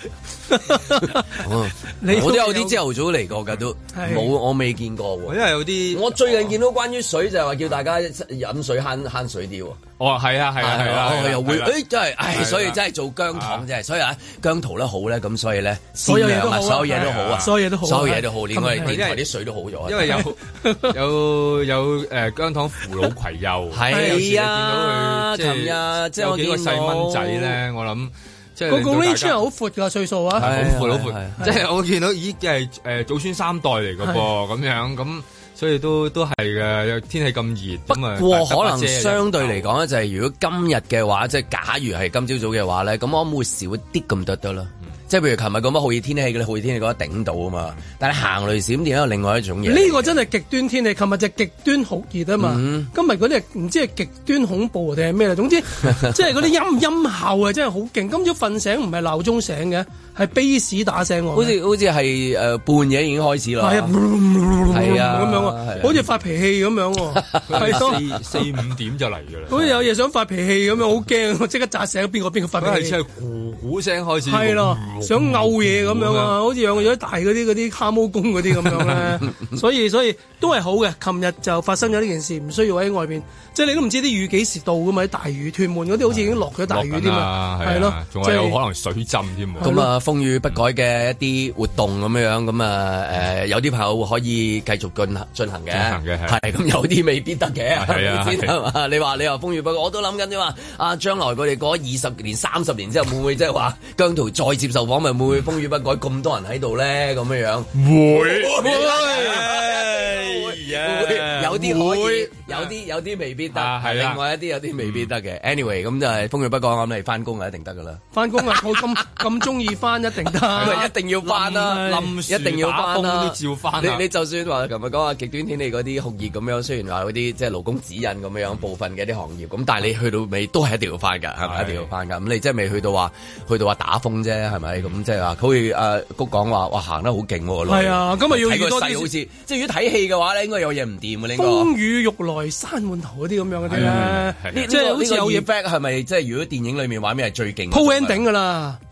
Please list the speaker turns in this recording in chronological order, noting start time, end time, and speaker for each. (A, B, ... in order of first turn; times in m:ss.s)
0:00.5-0:01.4 A
0:01.2-0:09.8 B
0:02.0-0:02.8 A
0:03.9-0:04.3 A
0:05.3-0:06.5 C
0:10.0-0:12.8 C
0:10.6-0:20.2 B
0:13.3-0:13.6 C
0:16.0-0:18.9 A
0:16.9-0:17.5 C
0:18.8-0:19.2 C
0:19.8-0:29.4 C
0:20.6-0:20.9 A
0:23.7-0:27.6 B
0:23.9-0:24.2 A
0:28.7-0:30.4 A
0:30.3-0:39.7 C
0:30.4-0:31.4 B
0:37.9-0:50.1 B
0:49.6-1:01.5 A
0:52.4-0:52.9 B
1:01.3-1:03.9 B
1:03.6-1:08.0 A
1:04.7-1:06.0 B
1:07.1-1:08.0 B
1:07.5-1:09.7 C
1:09.5-1:13.0 A
1:12.6-1:16.4 C
1:14.2-1:28.6 A
1:18.6-1:19.0 C
1:26.4-1:29.7 C
1:29.6-1:29.8 A
1:29.6-1:58.0 B
1:35.7-1:36.4 C
1:37.8-1:38.6 C
1:47.7-1:52.7 C
1:53.5-1:54.2 C
1:58.1-2:02.1 A
2:00.5-2:21.7 B
2:00.6-2:04.0 C
2:11.4-2:11.9 C
2:17.7-2:19.1 A
2:21.4-2:25.5 A
2:23.7-2:24.7 C
2:23.7-2:28.2 B
2:27.7-2:28.8 A